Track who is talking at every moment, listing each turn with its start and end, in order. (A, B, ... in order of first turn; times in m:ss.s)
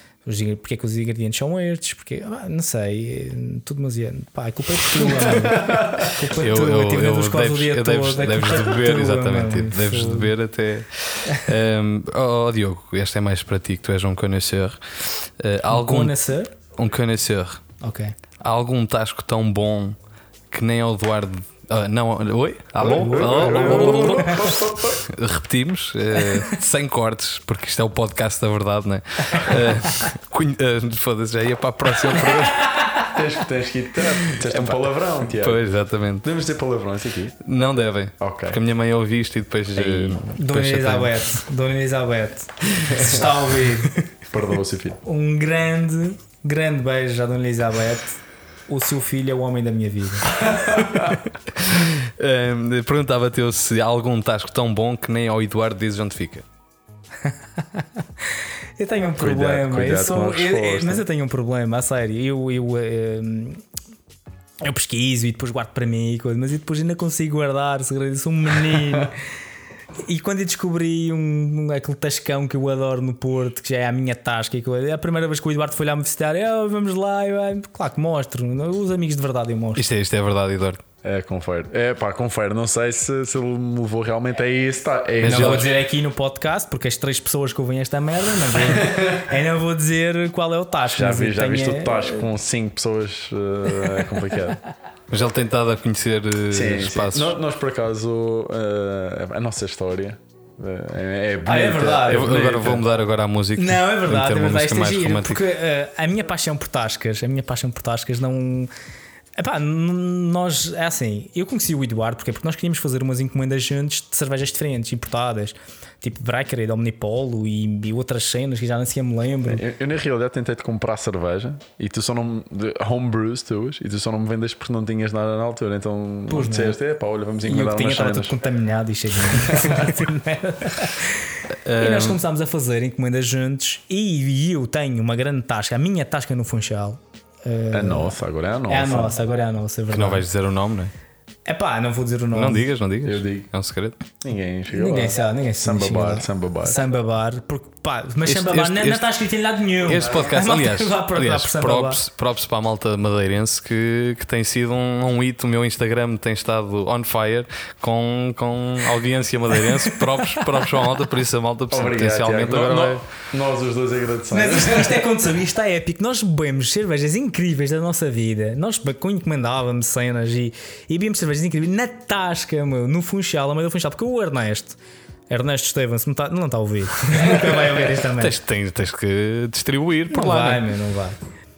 0:00.2-0:10.3 A
0:05.3-0:06.1 B
0:06.4-0:17.6 C
0:15.7-0:16.5 A
0:17.8-0:18.2 A
0:18.4-0:20.0 C
0:20.5-0:32.7 C
0:22.8-0:25.0 B
0:22.8-0:24.4 A
0:32.6-0:33.1 A
0:33.0-0:35.6 B
0:34.3-0:36.3 C
0:36.2-0:37.4 B
0:37.4-0:41.4 C
0:38.2-0:38.6 B
0:39.7-0:40.2 B
0:40.3-0:44.0 A
0:42.9-0:43.2 B
0:44.3-0:45.0 B
0:45.0-0:50.4 A
0:50.5-0:51.2 B
0:51.6-0:56.4 C
0:57.3-0:57.9 A
0:58.8-1:03.6 A
0:59.2-1:01.0 B
1:04.6-1:09.2 A
1:10.1-1:19.8 A
1:19.8-1:20.8 C
1:21.0-1:25.7 B
1:25.2-1:25.7 C
1:25.2-1:32.3 A
1:28.6-1:29.3 B
1:30.9-1:34.6 B
1:35.1-1:37.4 C
1:36.5-1:42.8 B
1:41.5-1:42.4 A
1:42.1-1:45.4 C
1:43.6-1:48.7 A
1:49.4-1:59.6 A
1:59.5-2:08.4 B
2:06.3-2:06.8 A
2:07.4-2:18.2 A
2:09.3-2:10.0 B
2:11.7-2:12.2 C
2:17.7-2:19.2 B
2:18.7-2:20.2 A
2:19.9-2:20.9 C
2:21.5-2:22.6 A
2:22.3-2:24.0 C
2:23.0-2:23.5 B
2:24.2-2:26.8 B
2:24.7-2:32.0 A
2:28.3-2:29.0 C
2:29.8-2:43.1 C
2:40.0-2:40.7 A
2:41.7-2:45.1 B
2:44.3-2:54.8 A
2:55.3-2:58.4 A
2:57.3-3:00.6 C
3:00.1-3:01.2 A